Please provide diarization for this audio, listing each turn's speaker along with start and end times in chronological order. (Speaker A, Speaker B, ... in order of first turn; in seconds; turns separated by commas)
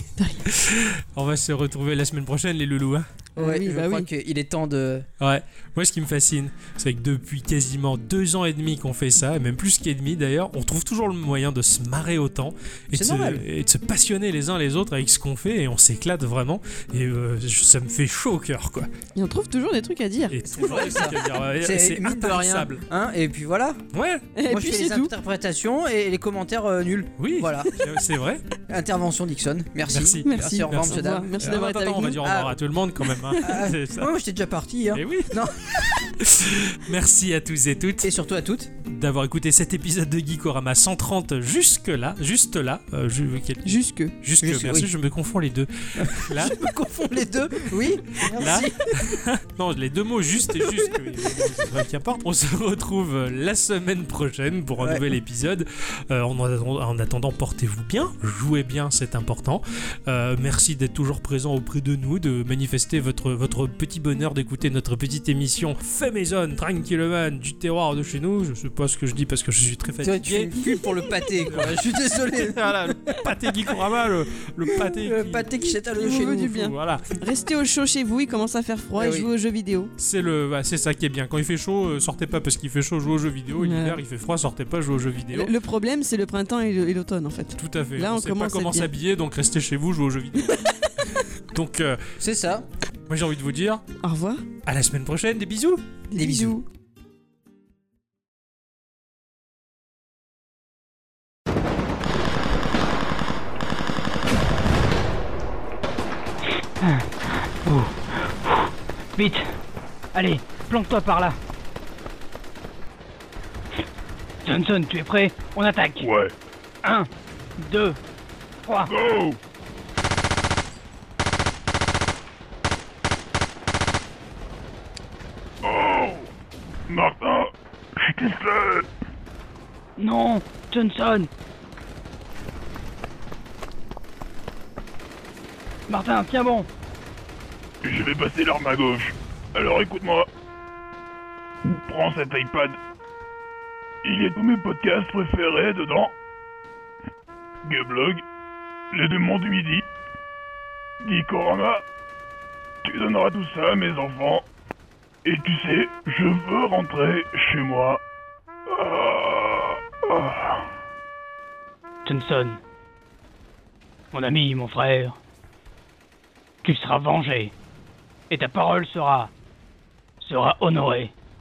Speaker A: 0.2-0.5, Speaker B: 0.5-3.1, Speaker C: 3.4-5.1, Speaker A: 3.4-4.1, Speaker B: 5.2-18.9, Speaker C: 12.9-13.4, Speaker A: 19.2-20.4, Speaker B: 20.3-22.8, Speaker C: 20.5-23.9, Speaker B: 23.9-24.3, Speaker A: 24.4-25.1, Speaker C: 24.5-27.8, Speaker B: 27.2-28.4, Speaker C: 28.7-32.5, Speaker B: 29.9-34.1, Speaker A: 30.2-32.2, Speaker A: 33.2-33.6, Speaker C: 33.4-36.2, Speaker B: 34.9-35.4, Speaker B: 36.2-38.1, Speaker C: 38.0-38.7, Speaker B: 38.9-46.6, Speaker A: 43.6-44.1, Speaker C: 44.4-44.9, Speaker C: 46.0-49.1, Speaker B: 48.1-70.6, Speaker C: 50.5-51.5, Speaker C: 54.8-55.1, Speaker C: 70.0-73.2, Speaker B: 71.5-75.5, Speaker C: 74.7-76.6, Speaker A: 75.9-79.9, Speaker B: 76.5-77.1, Speaker C: 79.0-79.3, Speaker B: 80.0-85.5, Speaker A: 83.6-84.0, Speaker A: 85.3-88.9, Speaker B: 87.6-92.1, Speaker C: 92.2-92.7, Speaker B: 93.1-93.8, Speaker A: 94.0-94.4, Speaker B: 94.7-95.8, Speaker A: 96.1-96.7, Speaker C: 96.2-96.6, Speaker D: 106.8-107.1, Speaker D: 107.6-109.5, Speaker D: 110.1-111.4, Speaker D: 114.4-116.1, Speaker E: 116.0-116.3, Speaker D: 116.8-118.0, Speaker D: 118.7-118.9, Speaker E: 118.9-119.4, Speaker E: 125.6-126.3, Speaker E: 126.9-128.9, Speaker D: 130.0-131.3, Speaker D: 135.9-136.7, Speaker E: 137.8-140.3, Speaker E: 141.6-142.8, Speaker E: 144.0-146.1, Speaker E: 147.6-148.2, Speaker E: 148.9-149.9, Speaker E: 151.0-151.8, Speaker E: 152.8-154.5, Speaker E: 155.2-158.0, Speaker E: 158.7-160.7, Speaker D: 162.1-162.6, Speaker D: 164.1-165.2, Speaker D: 166.6-167.5, Speaker D: 168.3-169.3, Speaker D: 170.2-171.1